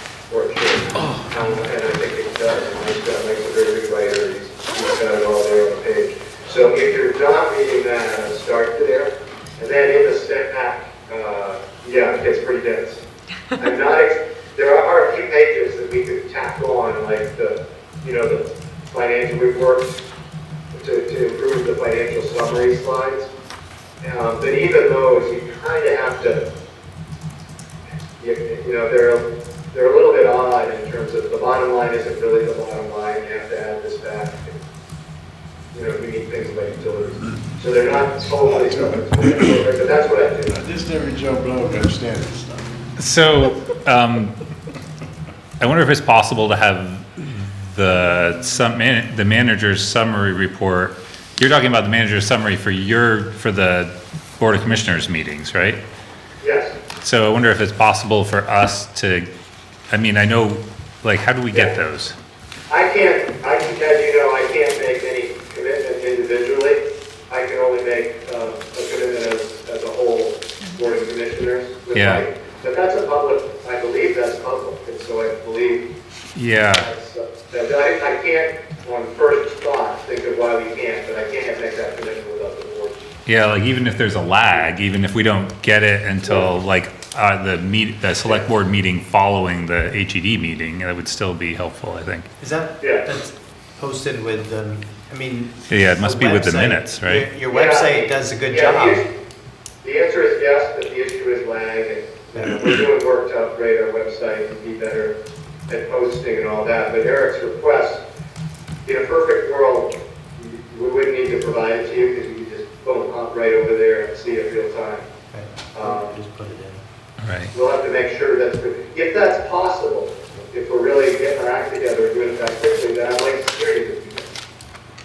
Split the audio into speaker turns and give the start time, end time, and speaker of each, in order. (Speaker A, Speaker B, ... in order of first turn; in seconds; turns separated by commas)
Speaker A: 0.3-20.0, Speaker A: 20.7-23.3, Speaker A: 24.0-26.4, Speaker A: 28.2-34.6, Speaker A: 35.7-40.6, Speaker B: 38.4-39.5, Speaker B: 40.5-42.8, Speaker C: 43.0-44.4, Speaker C: 45.6-55.8, Speaker A: 56.4-56.8, Speaker C: 57.0-59.3, Speaker C: 59.9-62.2, Speaker A: 62.7-75.9, Speaker C: 71.9-72.2, Speaker C: 76.3-76.9, Speaker A: 76.7-83.0, Speaker C: 83.3-92.3, Speaker A: 86.2-86.5, Speaker D: 92.4-99.0, Speaker A: 92.8-93.1, Speaker C: 95.7-97.3, Speaker A: 97.5-99.1, Speaker A: 99.8-105.2, Speaker A: 105.7-108.0, Speaker A: 108.9-115.1, Speaker D: 115.3-116.8, Speaker A: 115.7-116.2, Speaker C: 117.2-117.5, Speaker A: 117.5-124.3